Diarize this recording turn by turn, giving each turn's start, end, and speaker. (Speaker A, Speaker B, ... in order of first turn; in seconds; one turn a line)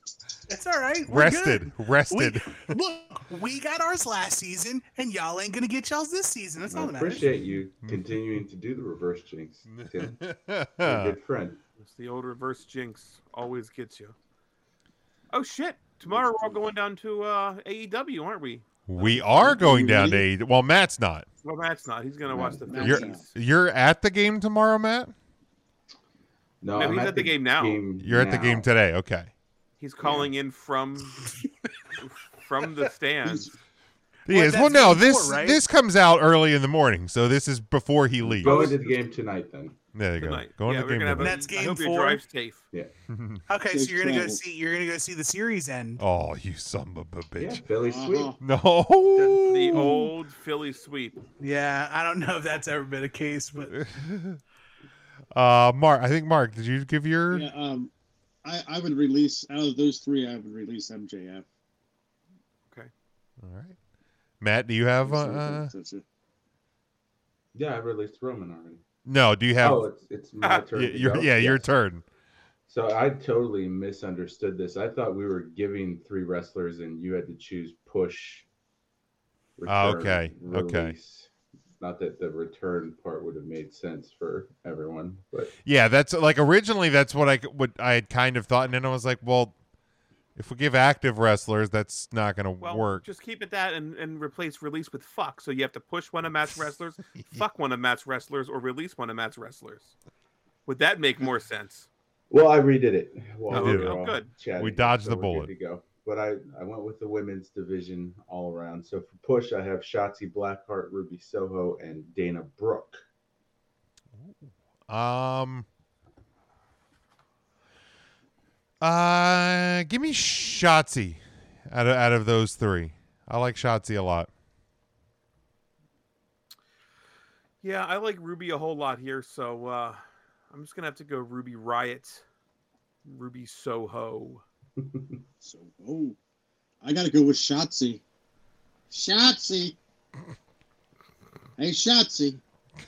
Speaker A: 0.5-7.3
Speaker B: 1.1-2.8
Speaker C: 6.7-10.2
Speaker B: 9.7-11.2
Speaker C: 10.8-11.6
Speaker D: 11.8-14.1
Speaker D: 15.3-19.4
Speaker C: 16.1-16.4
Speaker B: 18.9-21.2
Speaker E: 19.3-20.2
Speaker D: 21.4-23.3
Speaker C: 22.3-22.9
Speaker E: 22.3-23.2
Speaker B: 22.8-25.1
Speaker C: 26.6-28.7
Speaker D: 26.8-27.8
Speaker B: 28.0-29.3
Speaker D: 29.8-31.3
Speaker C: 30.0-30.3
Speaker D: 32.0-33.5
Speaker E: 33.2-33.5
Speaker B: 34.2-38.6
Speaker A: 34.3-35.6
Speaker C: 38.2-39.8
Speaker D: 38.4-38.8
Speaker B: 39.9-41.4
Speaker D: 40.2-42.6
Speaker A: 41.2-42.2
Speaker B: 43.1-43.4
Speaker A: 43.5-46.0
Speaker E: 43.7-44.4
Speaker B: 46.0-47.6
Speaker C: 47.4-48.4
Speaker E: 47.8-48.4
Speaker B: 48.4-49.9
Speaker E: 49.3-50.1
Speaker D: 49.4-51.2
Speaker A: 51.4-53.8
Speaker B: 53.7-54.4
Speaker B: 55.3-57.5
Speaker E: 57.3-57.9
Speaker E: 58.4-61.5
Speaker B: 63.4-63.8
Speaker B: 64.4-65.7
Speaker E: 65.0-66.0
Speaker C: 67.5-68.8
Speaker B: 69.0-69.8
Speaker C: 69.6-71.7
Speaker B: 70.7-72.0
Speaker C: 72.7-78.5
Speaker C: 79.6-81.3
Speaker B: 79.7-80.9
Speaker C: 81.8-85.5
Speaker B: 85.6-89.5
Speaker B: 90.3-93.0
Speaker D: 92.6-99.9
Speaker D: 100.7-101.9
Speaker C: 102.3-113.0
Speaker D: 103.5-104.3
Speaker B: 103.5-104.0
Speaker B: 104.6-105.5
Speaker B: 114.9-115.7
Speaker B: 118.8-124.3
Speaker D: 127.6-130.0
Speaker D: 130.5-132.2
Speaker D: 133.0-134.4
Speaker C: 134.8-135.1
Speaker E: 135.4-136.2
Speaker E: 136.8-138.0
Speaker E: 138.9-139.8
Speaker E: 141.6-142.4